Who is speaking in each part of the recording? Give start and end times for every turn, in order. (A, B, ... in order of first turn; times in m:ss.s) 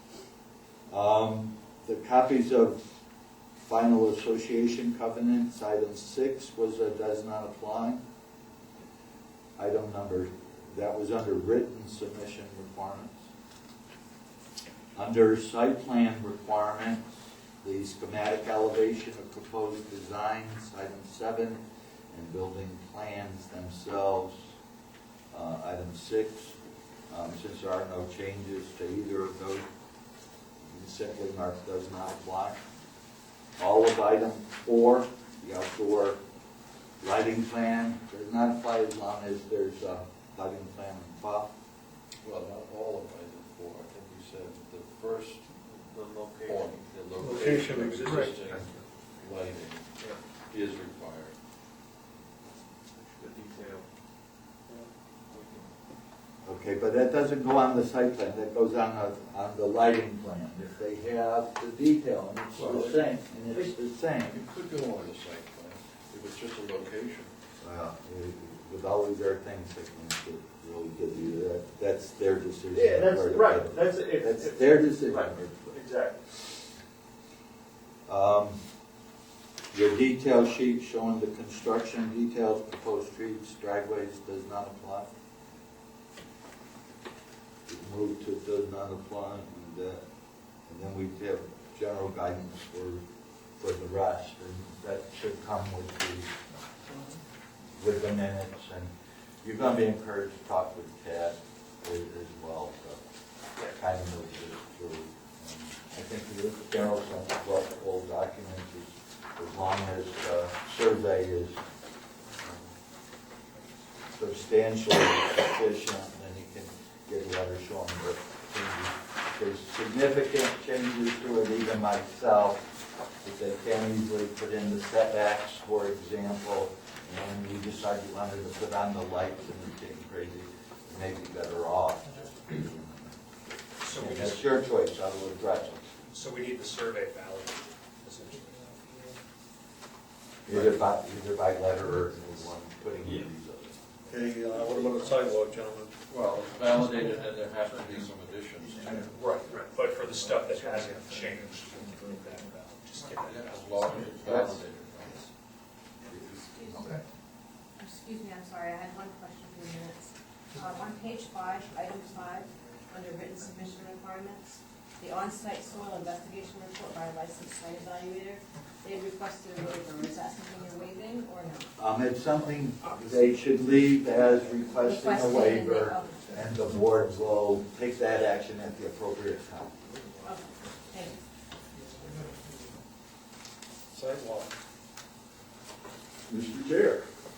0:00.9-0:02.8 A
0:03.6-0:08.0 A
0:09.6-0:13.3 A
0:15.0-0:17.1 A
0:17.6-0:24.5 A
0:25.3-0:26.6 A
0:27.1-0:29.7 A
0:30.6-0:32.6 A
0:33.6-0:36.2 A
0:37.0-0:41.5 A
0:42.2-0:45.6 B
0:45.7-0:46.6 C
0:46.4-0:50.0 B
0:47.2-0:48.4 C
0:50.5-0:51.4 B
0:53.0-0:53.8 D
0:56.4-1:04.4 A
1:04.3-1:07.3 B
1:07.6-1:15.8 A
1:12.7-1:16.2 D
1:18.1-1:18.6 A
1:19.7-1:25.1 A
1:27.7-1:30.0 A
1:30.7-1:33.0 A
1:33.6-1:36.3 A
1:37.8-1:38.9 A
1:39.4-1:43.0 A
1:43.7-1:51.6 A
1:54.1-2:02.7 A
2:03.2-2:13.1 A
2:13.8-2:14.5 E
2:13.9-2:15.9 A
2:16.0-2:18.8 E
2:18.8-2:19.2 D
2:20.5-2:23.8 A
2:24.1-2:26.0 C
2:24.6-2:25.1 D
2:26.1-2:29.1 B
2:29.0-2:34.6 E
2:30.8-2:31.6 D
2:33.2-2:35.2 B
2:36.1-2:37.0 B
2:36.5-2:36.9 F
2:37.8-2:51.8 F
2:51.8-2:59.9 A
2:54.8-2:56.8 F
3:00.2-3:01.2 F
3:01.8-3:02.6 D
3:03.9-3:04.5 C
3:06.3-3:07.0 A